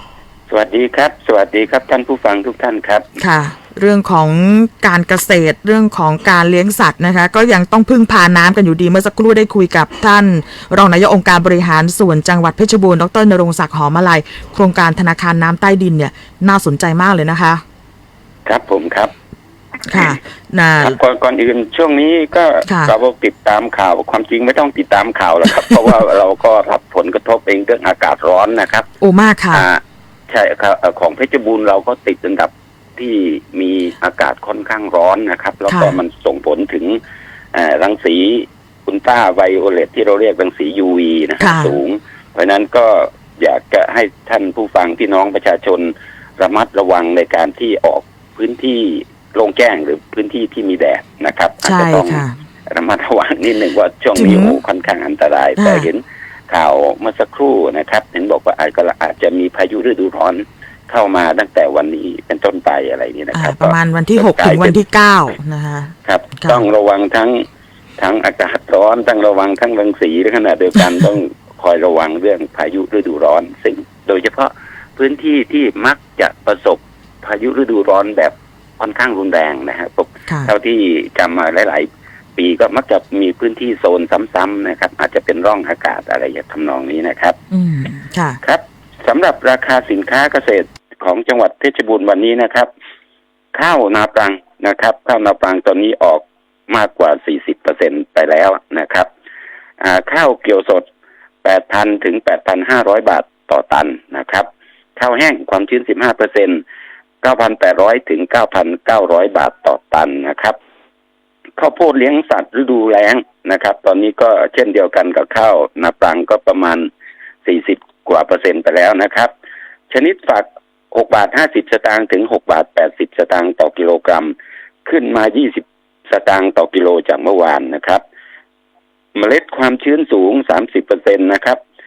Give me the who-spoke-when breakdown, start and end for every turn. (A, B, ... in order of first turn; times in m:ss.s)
0:00.5-0:03.0 A
0:03.2-0:17.6 B
0:18.4-0:19.1 A
0:19.8-0:21.0 B
0:20.8-0:28.9 A
0:22.6-0:22.9 B
0:29.0-0:29.6 B
0:29.5-0:37.0 A
0:35.7-0:36.0 B
0:37.5-1:04.8 A
0:41.4-0:41.8 B
0:51.6-0:52.4 B
0:54.1-0:54.6 B
0:55.6-0:55.9 B
1:03.3-1:06.6 B
1:06.0-1:07.4 A
1:08.0-1:27.4 A
1:27.5-1:28.4 B
1:28.4-1:32.7 A
1:33.5-1:39.1 A
1:39.8-1:40.8 A
1:41.4-1:46.6 A
1:47.2-1:50.6 A
1:51.6-1:56.9 A
1:57.4-1:59.3 A
1:59.9-2:08.0 A
2:09.1-2:11.6 A